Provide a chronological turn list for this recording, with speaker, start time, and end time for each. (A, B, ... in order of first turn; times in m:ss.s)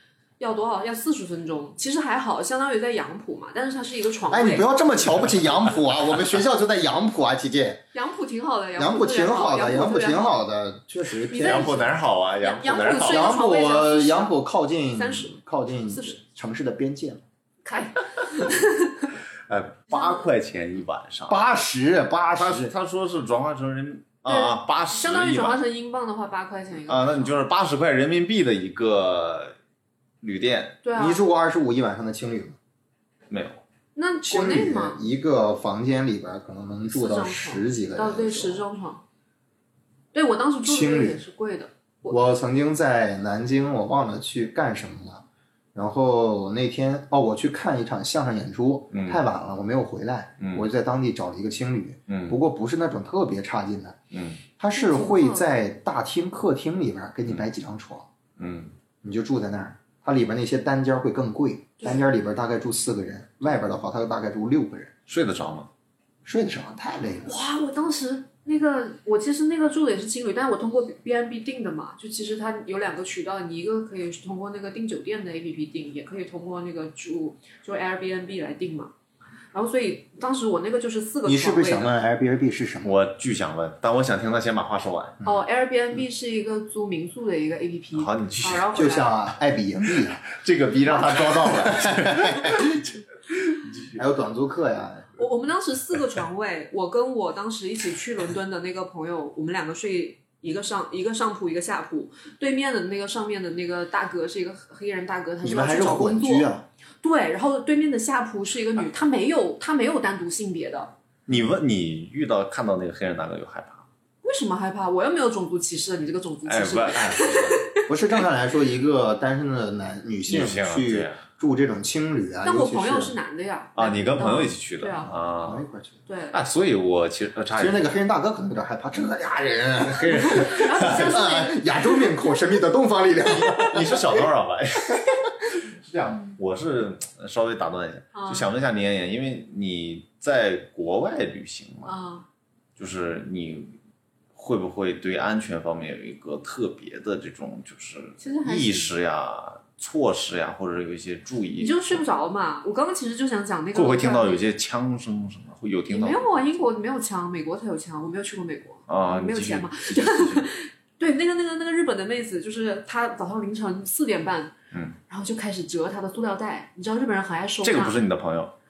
0:00.4-0:04.7 A
0:04.3-0:07.8 B
0:07.9-0:10.4 A
0:08.8-0:12.0 B
0:11.3-0:14.4 A
0:11.4-0:13.4 C
0:13.1-0:17.2 B
0:14.9-0:15.4 A
0:15.9-0:16.2 A
0:17.6-0:19.1 A
0:19.5-0:21.4 C
0:19.9-0:20.3 A
0:21.3-0:22.7 B
0:22.4-0:25.6 C
0:24.3-0:27.4 A
0:26.9-0:29.6 C
0:30.2-0:30.8 C
0:30.8-0:31.2 A
0:31.0-0:32.6 B
0:33.3-0:33.6 C
0:33.9-0:35.0 A
0:34.2-0:38.6 B
0:36.9-0:39.0 A
0:40.1-0:42.2 A
0:40.6-0:41.2 B
0:42.1-0:54.0 B
0:48.9-0:49.2 C
0:50.4-0:50.7 C
0:52.1-0:52.4 C
0:54.1-0:54.4 C
0:54.6-0:58.1 B
0:54.7-0:55.5 A
0:58.4-0:58.8 C
0:59.0-1:04.9 B
1:01.8-1:02.1 A
1:05.1-1:05.7 C
1:06.2-1:07.3 B
1:07.3-1:18.9 A
1:19.5-1:21.9 A
1:21.3-1:22.9 B
1:22.8-1:25.2 C
1:25.2-1:29.1 A
1:27.9-1:28.7 C
1:28.7-1:30.2 B
1:30.2-1:32.9 C
1:31.4-1:32.8 B
1:33.6-1:34.0 C
1:33.9-1:35.1 B
1:35.2-1:46.5 A
1:45.4-1:46.6 B
1:47.0-1:50.9 A
1:51.3-1:53.9 C
1:54.2-1:57.8 A
1:56.4-1:57.6 C
1:57.9-2:03.1 B
2:00.3-2:01.2 C
2:02.4-2:05.1 A
2:03.8-2:05.6 C
2:05.1-2:06.0 B
2:06.1-2:06.4 A
2:06.3-2:07.9 C
2:07.6-2:14.2 B
2:09.9-2:11.2 C
2:10.1-2:12.4 A
2:13.3-2:22.0 C
2:18.1-2:18.5 A
2:21.9-2:22.3 A
2:22.8-2:23.8 C
2:24.4-2:32.0 C
2:28.2-2:28.9 A
2:31.6-2:34.4 A
2:33.8-2:36.3 C
2:35.9-2:44.6 A
2:38.9-2:40.5 C
2:45.1-2:48.0 A
2:47.6-2:48.5 C